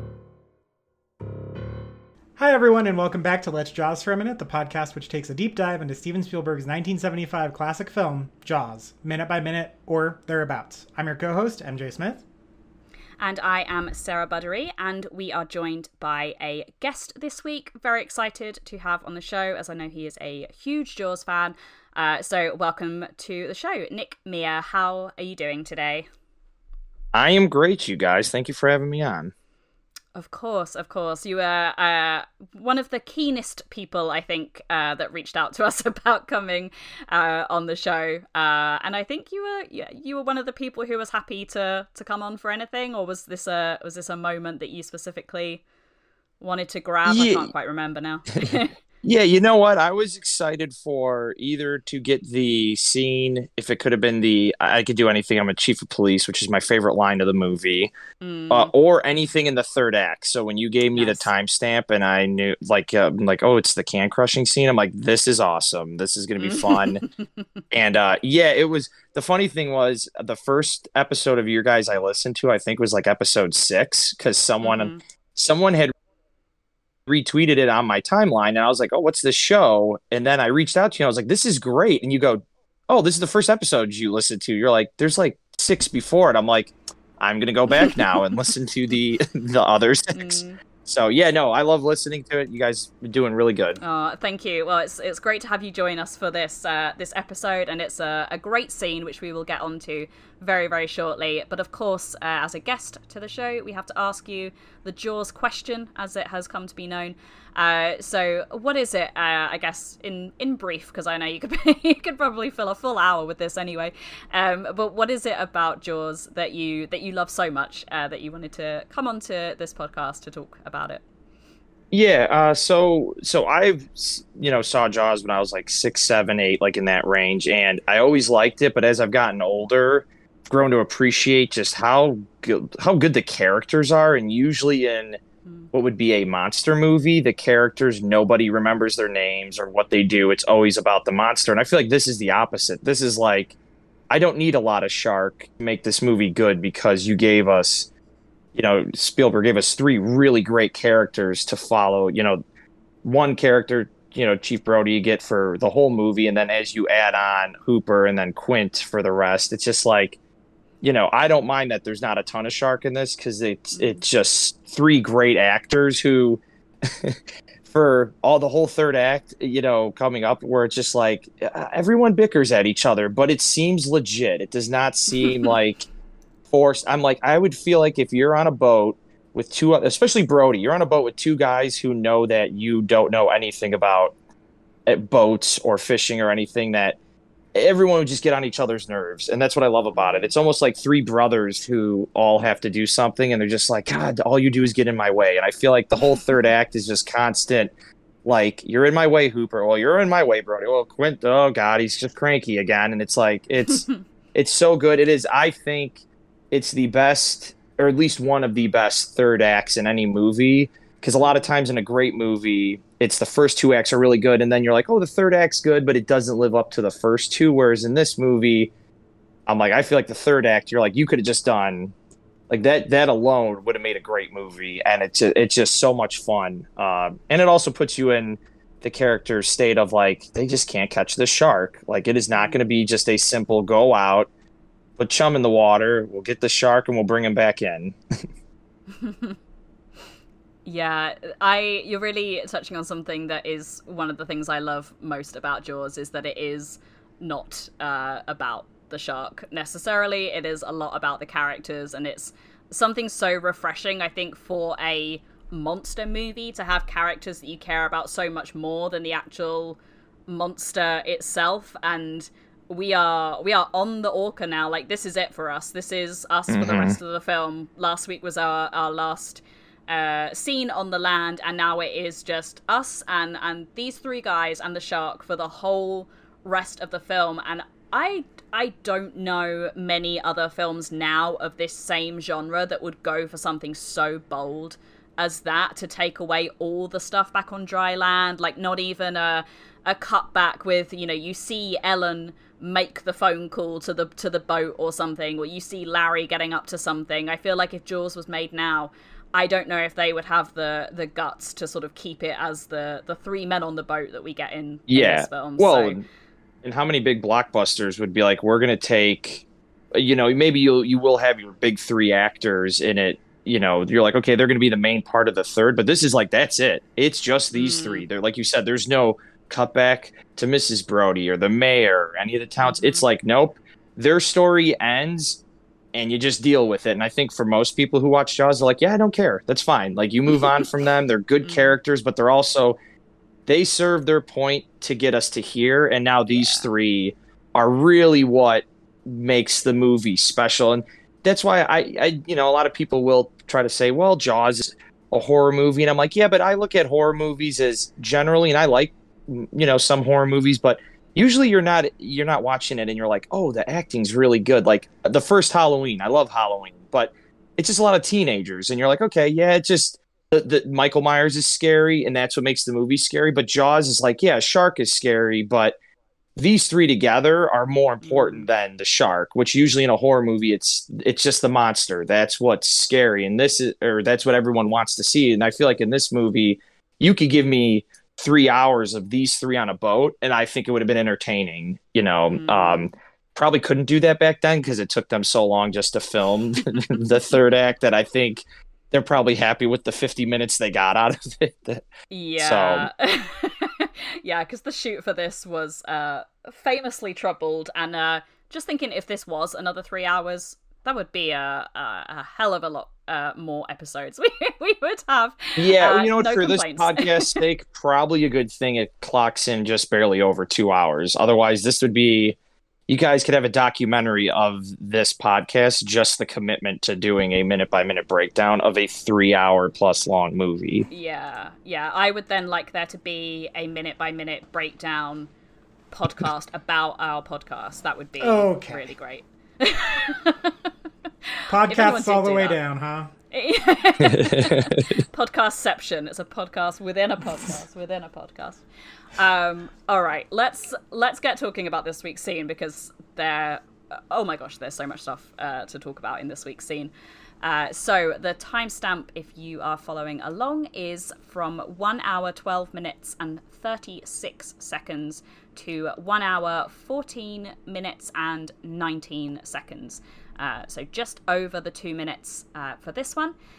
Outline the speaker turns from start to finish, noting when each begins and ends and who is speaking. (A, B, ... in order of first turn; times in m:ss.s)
0:02.4-0:12.2 A
0:13.2-0:26.1 B
0:27.1-0:29.3 C
0:30.2-0:45.6 B
0:46.4-0:48.7 B
0:47.0-0:47.5 C
0:48.4-0:57.9 C
0:58.2-0:58.7 B
0:58.5-1:07.0 C
1:00.9-1:01.3 B
1:06.4-1:07.4 B
1:07.7-1:15.9 C
1:14.6-1:15.0 B
1:17.1-1:33.8 C
1:30.1-1:30.6 B
1:33.8-2:01.0 B
2:01.9-2:15.2 C
2:15.7-2:23.6 C
2:24.1-2:27.9 C
2:28.6-2:32.4 C
2:33.0-2:40.2 C
2:40.8-2:55.8 C
2:43.8-2:44.0 B
2:55.1-2:55.5 B
2:56.5-3:04.2 C
3:04.9-3:07.0 C
3:07.6-3:17.7 C
3:10.0-3:10.3 B
3:18.2-3:38.7 C
3:31.2-3:31.5 B
3:39.5-3:41.9 C
3:42.5-3:54.3 C
3:52.3-3:52.6 B
3:55.0-3:58.0 C
3:59.0-3:59.4 B
4:00.6-5:06.0 B
4:26.5-4:27.0 C
5:04.9-5:06.0 C
5:06.6-5:25.4 C
5:17.5-5:18.1 B
5:22.6-5:23.0 B
5:25.9-5:32.8 C
5:31.4-5:31.7 B
5:33.5-6:05.8 C
5:36.3-5:36.7 B
6:06.4-6:31.8 C
6:08.0-6:08.4 B
6:22.3-6:22.8 B
6:32.1-6:47.4 B
6:32.4-6:32.9 C
6:45.6-6:52.4 C
6:52.9-7:00.9 C
7:00.9-7:05.3 B
7:05.9-7:10.7 B
7:08.2-7:08.8 A
7:11.3-7:12.6 B
7:11.5-7:13.1 A
7:13.3-7:18.6 B
7:14.0-7:14.8 C
7:19.2-7:26.9 B
7:27.4-7:43.4 B